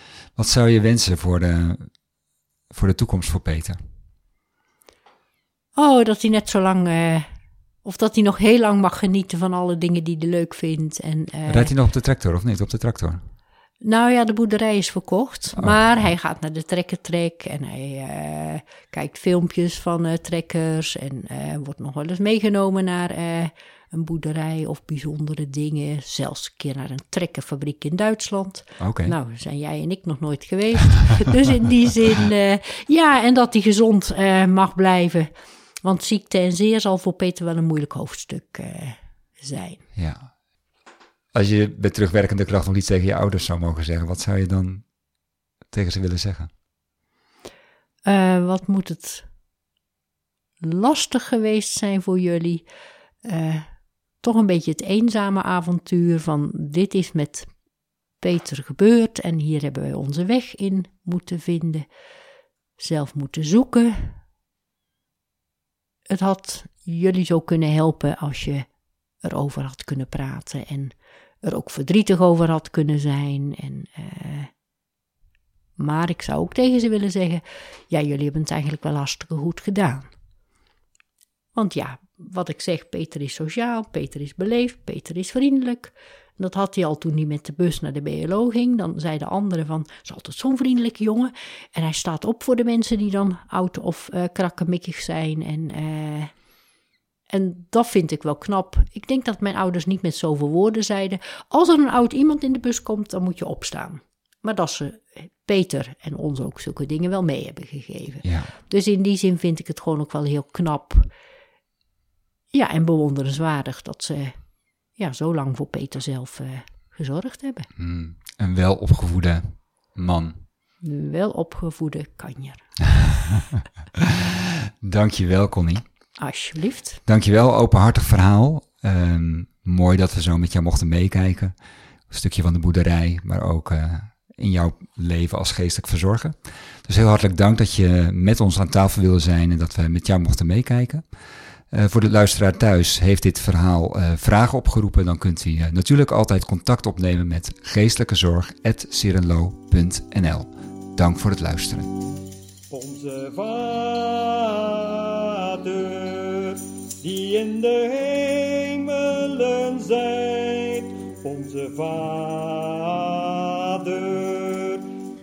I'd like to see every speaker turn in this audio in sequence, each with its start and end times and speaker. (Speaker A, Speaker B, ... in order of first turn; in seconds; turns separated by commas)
Speaker A: 0.3-2.0, Speaker A: 2.7-3.8, Speaker B: 5.8-7.3, Speaker B: 7.8-11.7, Speaker A: 11.5-13.2, Speaker B: 13.8-35.3, Speaker A: 28.8-29.1, Speaker B: 35.8-39.9, Speaker A: 39.9-40.3, Speaker A: 41.3-44.9, Speaker A: 45.7-46.5, Speaker B: 48.0-49.3, Speaker B: 50.6-52.6, Speaker B: 53.2-53.7, Speaker B: 54.2-57.5, Speaker B: 58.2-61.9, Speaker B: 62.8-64.2, Speaker B: 66.1-68.7, Speaker B: 69.2-74.5, Speaker B: 75.8-80.1, Speaker B: 81.5-96.3, Speaker B: 97.3-111.1, Speaker A: 108.2-108.5, Speaker B: 112.5-114.4, Speaker B: 114.9-117.7, Speaker A: 117.8-120.4, Speaker B: 120.8-122.8, Speaker A: 124.0-125.8, Speaker B: 126.2-127.0, Speaker A: 127.0-131.5, Speaker A: 132.1-141.1, Speaker A: 141.7-151.9, Speaker C: 152.7-164.8